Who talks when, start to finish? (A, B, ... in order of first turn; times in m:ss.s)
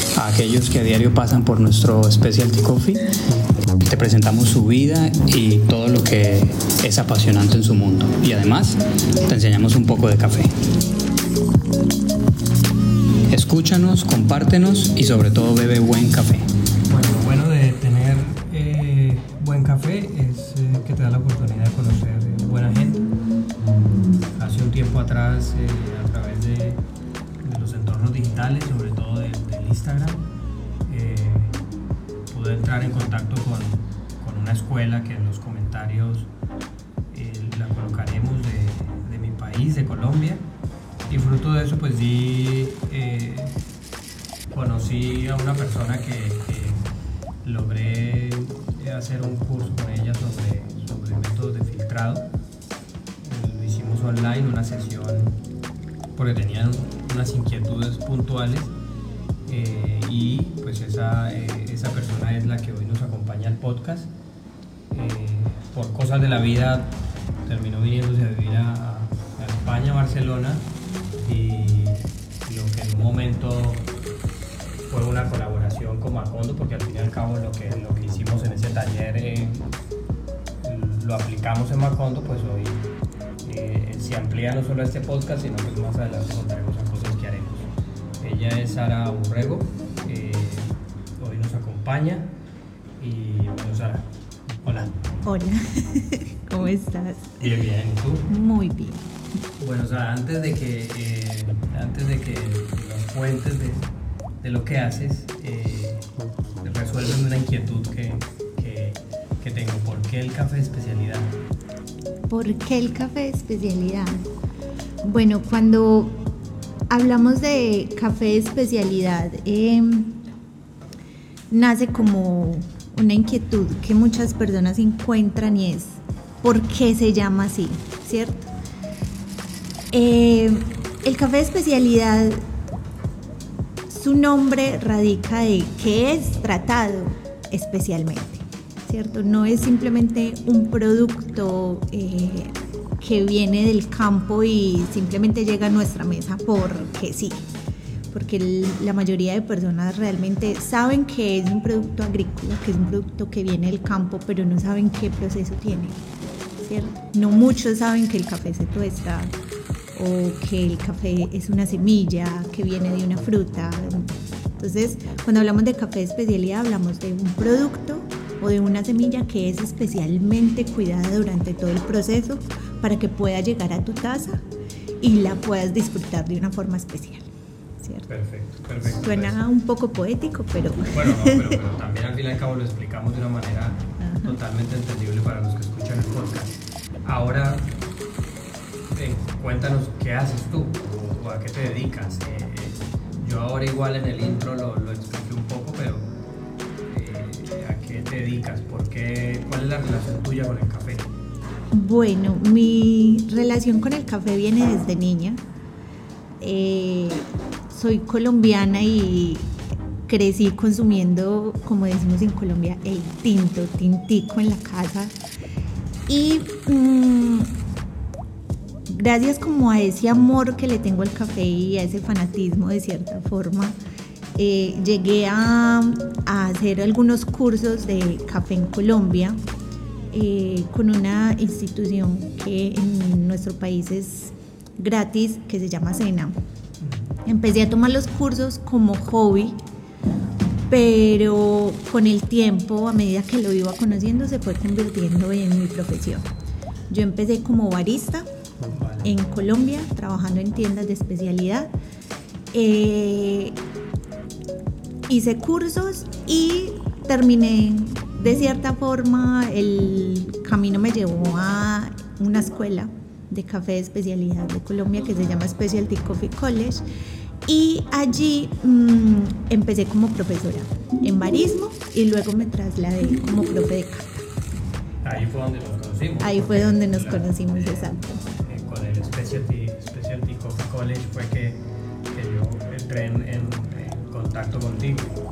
0:00.2-0:03.1 A
0:03.8-0:10.5 A
0:13.3-0:16.5 A
0:16.9-0:23.1 B
0:24.4-0:26.8 B
0:27.4-0:30.2 B
0:30.9-0:31.6 B
0:32.3-0:36.3 B
0:37.1-0:40.4 B
0:41.1-0:43.6 B
0:44.5-0:46.8 B
0:47.4-0:52.3 B
0:53.2-0:55.4 B
0:56.2-0:58.7 B
0:59.5-1:04.1 B
1:04.9-1:10.7 B
1:11.2-1:13.9 B
1:14.9-1:19.7 B
1:20.6-1:22.9 B
1:23.4-1:32.3 B
1:33.0-1:34.1 B
1:34.6-1:34.9 B
1:35.2-1:37.5 C
1:37.4-1:38.3 B
1:38.3-1:39.1 C
1:39.6-1:43.9 B
1:44.4-1:46.1 B
1:46.6-1:51.4 B
1:52.3-1:54.3 C
1:55.0-1:56.2 C
1:56.9-2:00.2 C
2:01.5-2:08.5 C
2:09.9-2:12.4 C
2:13.9-2:27.4 C
2:28.1-2:36.0 C
2:36.6-2:39.3 C
2:39.9-2:54.4 C
2:55.0-2:57.3 C
2:57.8-2:58.1 C
2:58.1-2:59.4 B
2:58.8-3:01.6 C
3:00.9-3:07.7 B
3:04.0-3:04.4 C
3:08.9-3:16.1 B
3:16.9-3:21.1 B
3:21.7-3:25.4 C
3:26.4-3:29.5 C
3:30.1-3:35.1 C
3:36.1-3:37.5 C
3:38.9-3:43.8 C
3:44.4-3:49.4 C
3:50.1-3:56.4 C
3:57.3-3:59.6 C
4:00.7-4:06.2 C
4:06.9-4:08.3 C
4:08.6-4:09.1 B
4:09.0-4:11.7 C
4:12.5-4:13.6 C
4:15.1-4:26.8 C
4:27.5-4:34.3 C
4:35.0-4:45.2 B
4:36.2-4:38.2 C